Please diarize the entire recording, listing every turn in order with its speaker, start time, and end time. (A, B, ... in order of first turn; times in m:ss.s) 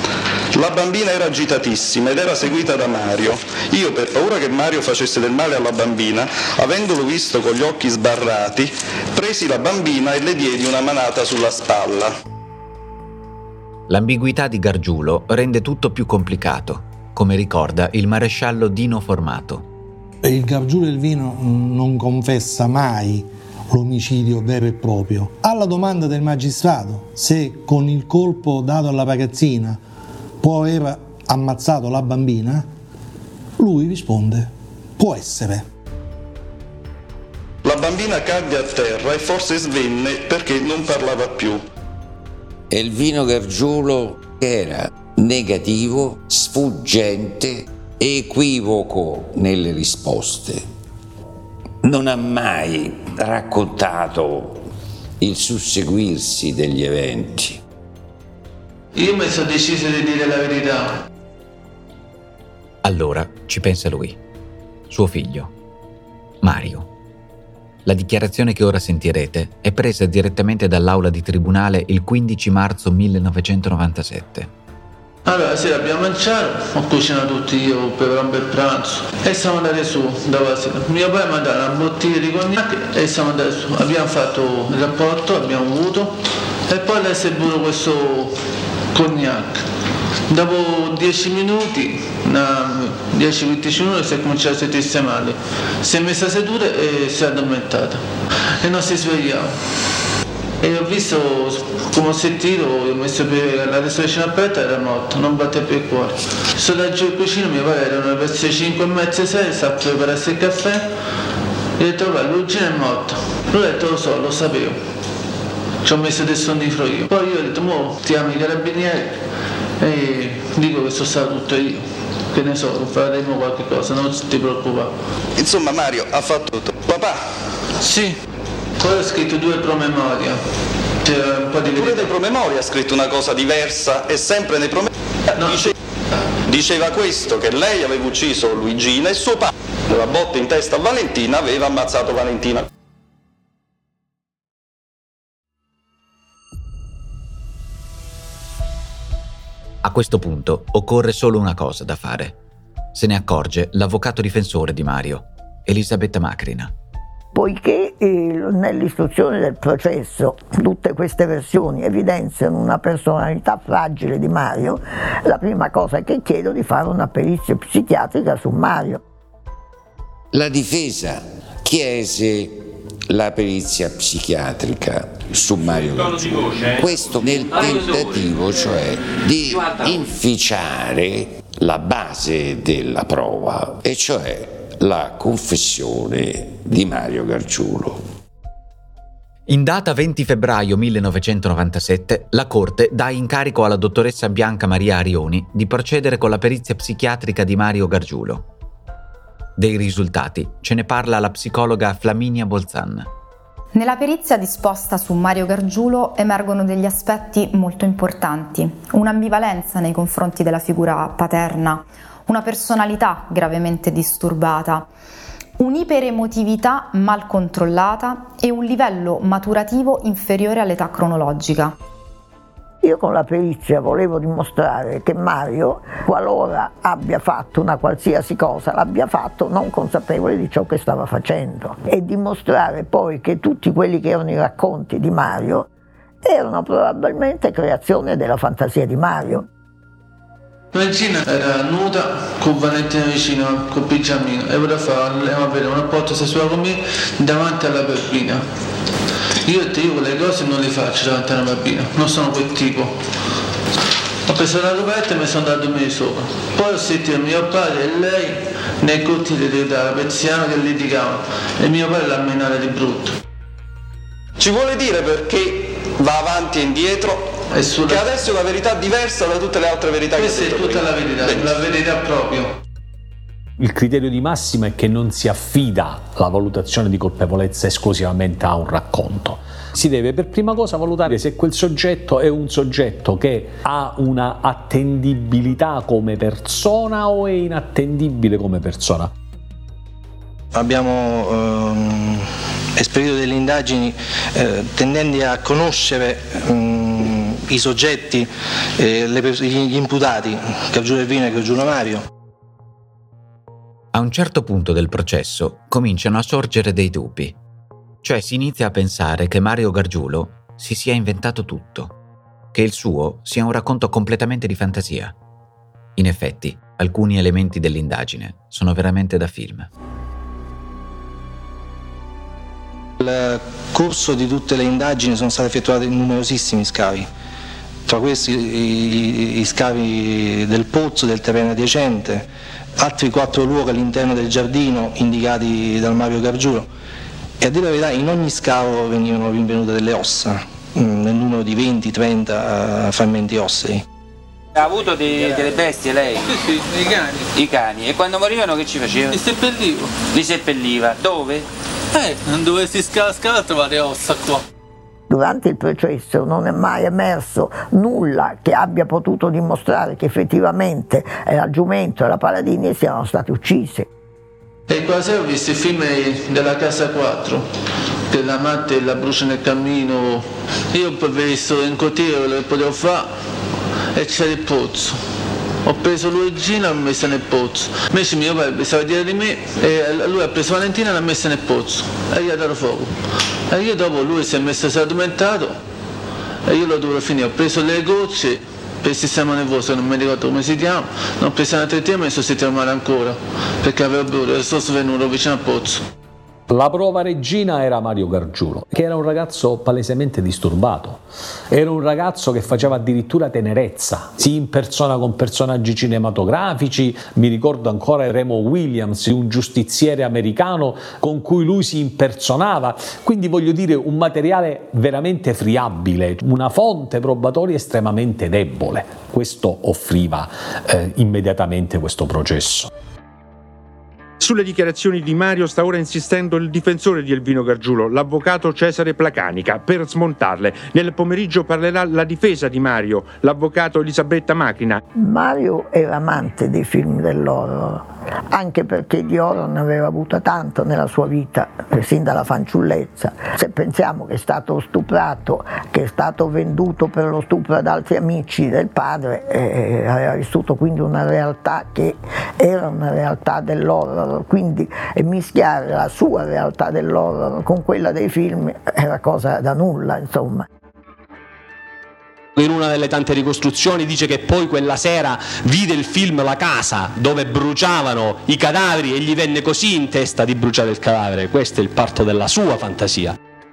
0:00.5-0:12.1 A
0:13.9-0:19.7 B
0:20.2-0:29.8 C
0:30.4-0:32.7 C
0:33.6-0:35.7 C
0:37.6-0:41.6 A
0:42.7-0:50.6 D
0:51.8-0:54.7 D
0:55.2-0:57.6 D
0:58.9-1:01.0 E
1:02.8-1:04.2 B
1:04.9-1:05.5 B
1:06.4-1:06.9 B
1:07.8-1:14.5 B
1:15.3-1:26.2 E
1:26.7-1:28.4 E
1:28.9-1:29.6 E
1:30.3-1:38.0 E
1:38.6-1:39.6 E
1:40.6-1:50.9 E
1:51.8-1:54.8 E
1:55.8-1:59.2 E
1:59.8-2:04.9 E
2:05.4-2:07.2 A
2:07.8-2:08.2 E
2:08.8-2:10.4 E
2:11.0-2:12.1 E
2:11.7-2:15.7 A
2:15.4-2:15.7 E
2:16.5-2:22.6 A
2:29.8-2:32.4 B
2:32.9-2:36.7 B
2:37.3-2:49.0 F
2:50.3-3:08.0 D
2:56.6-2:56.8 G
2:57.5-2:58.6 G
2:59.5-3:00.0 G
3:09.5-3:18.5 B
3:19.6-3:23.1 B
3:23.7-3:34.9 H
3:35.6-3:41.8 H
3:42.8-3:55.7 F
3:56.2-3:59.5 F
4:00.7-4:08.4 E
4:09.4-4:13.0 E
4:14.3-4:23.2 E
4:24.4-4:27.3 A
4:27.5-4:28.0 E
4:27.8-4:31.6 A
4:30.2-4:32.6 E
4:33.6-4:49.1 I
4:50.5-5:02.0 J
5:03.9-5:07.4 B
5:08.0-5:12.0 B
5:12.5-5:15.1 B
5:16.0-5:19.7 B
5:23.0-5:27.1 J
5:27.9-5:32.3 J
5:32.8-5:36.7 J
5:37.4-5:43.8 J
5:44.6-5:46.3 G
5:46.2-5:47.3 E
5:47.3-5:49.2 G
5:49.1-5:49.9 E
5:50.1-5:51.5 G
5:51.9-5:54.4 E
5:55.1-6:03.9 F
6:04.7-6:07.5 E
6:08.1-6:13.2 E
6:13.9-6:15.0 E
6:15.6-6:22.9 E
6:23.5-6:25.6 E
6:26.5-6:35.8 E
6:36.5-7:02.7 I
7:04.2-7:14.8 K
7:15.0-7:40.5 F
7:42.4-7:53.2 L